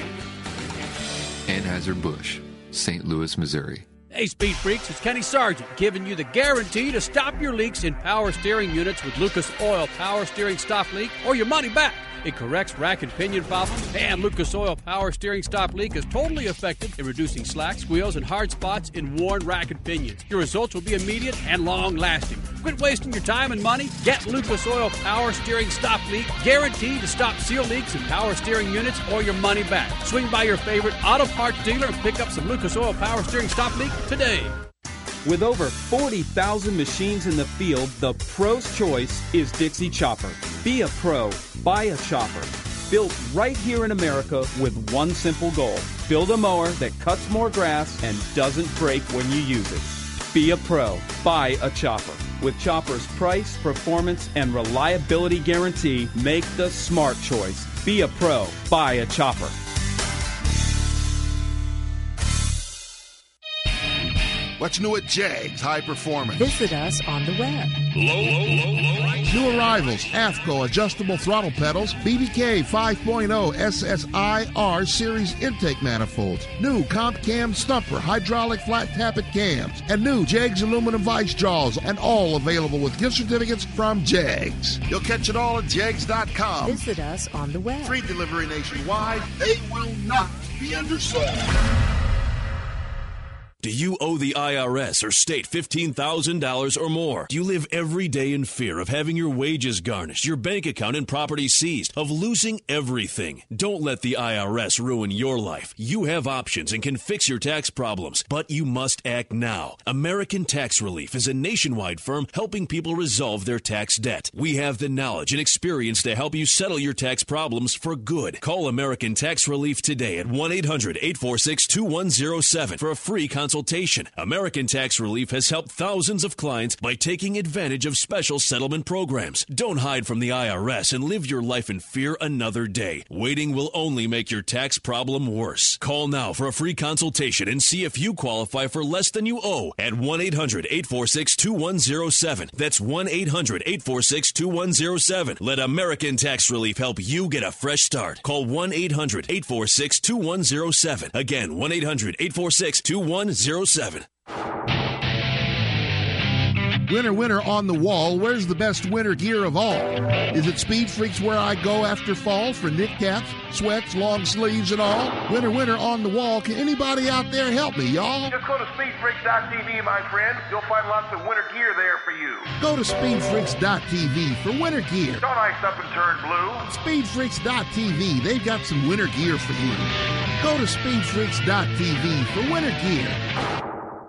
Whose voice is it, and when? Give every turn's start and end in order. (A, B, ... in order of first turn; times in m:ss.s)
0:01.5-0:03.9 A
0:04.1-0:34.5 B
0:35.2-0:59.6 C
1:04.6-1:06.5 D
1:06.4-1:07.8 E
1:09.2-1:26.8 D
1:26.6-1:28.0 E
1:27.8-1:31.6 D
1:33.6-2:34.1 F
2:36.9-2:48.3 D
2:48.3-2:52.5 G
2:52.6-2:55.2 D
2:55.2-2:56.6 G
2:56.6-3:03.2 D